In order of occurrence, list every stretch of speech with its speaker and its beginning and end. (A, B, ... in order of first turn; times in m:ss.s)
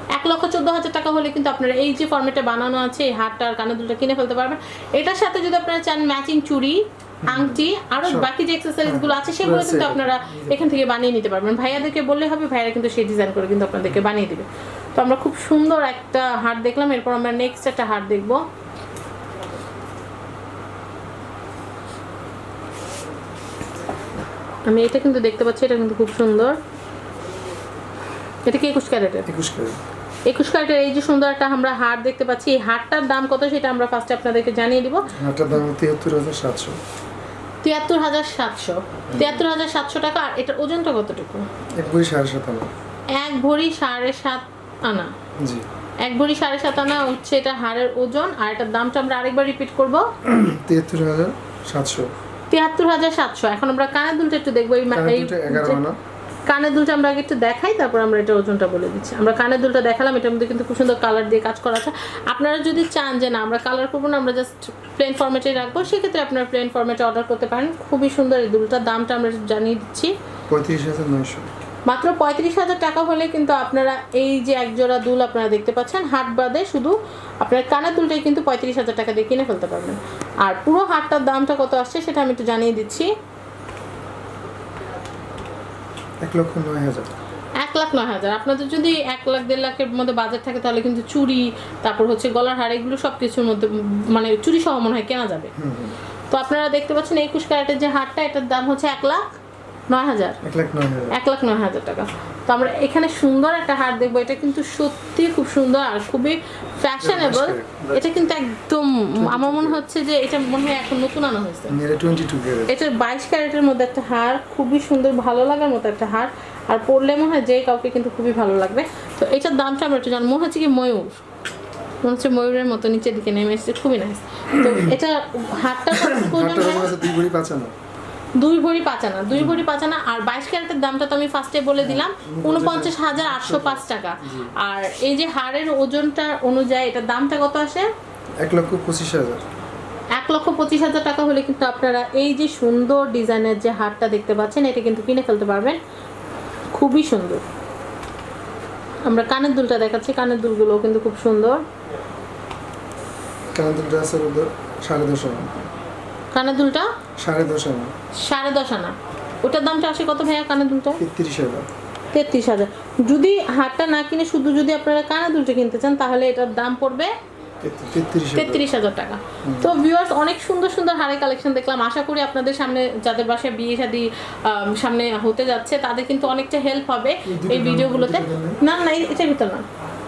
0:00.1-0:18.4 A
0:07.2-0:08.3 B
0:08.8-0:10.7 B
0:24.7-0:26.6 A
0:28.4-0:29.3 A
0:29.3-0:29.8 B
0:30.2-0:35.1 A
0:35.1-0:36.8 B
0:37.6-0:41.4 A
0:39.1-0:39.4 B
0:41.8-0:42.7 B
0:43.1-0:45.1 A
0:45.4-0:45.6 B
0:46.0-0:50.0 A
0:50.2-0:52.1 B
0:52.5-0:55.8 A
0:54.9-0:56.0 B
0:56.5-1:10.1 A
1:10.5-1:11.5 B
1:11.8-1:23.1 A
1:26.2-1:27.1 B
1:27.6-1:35.5 A
1:35.5-1:36.0 B
1:36.3-1:39.4 A
1:39.9-1:40.4 A
1:40.4-1:41.2 B
1:41.1-1:51.8 A
1:47.0-1:48.1 B
1:49.2-1:49.8 B
1:51.7-1:52.7 B
1:52.7-2:01.2 A
2:02.0-2:07.0 A
2:04.6-2:05.0 B
2:05.9-2:07.7 B
2:08.4-2:17.9 A
2:09.3-2:09.6 B
2:11.8-2:14.5 B
2:18.4-2:19.4 B
2:20.2-2:25.8 A
2:26.7-2:27.4 A
2:29.1-2:31.6 A
2:33.5-2:35.6 B
2:36.3-2:36.9 A
2:37.2-2:37.9 B
2:38.2-2:41.0 A
2:41.0-2:41.7 B
2:42.1-2:47.1 A
2:47.6-2:48.6 B
2:48.3-2:59.6 A
2:49.4-2:49.8 B
2:57.2-2:58.6 B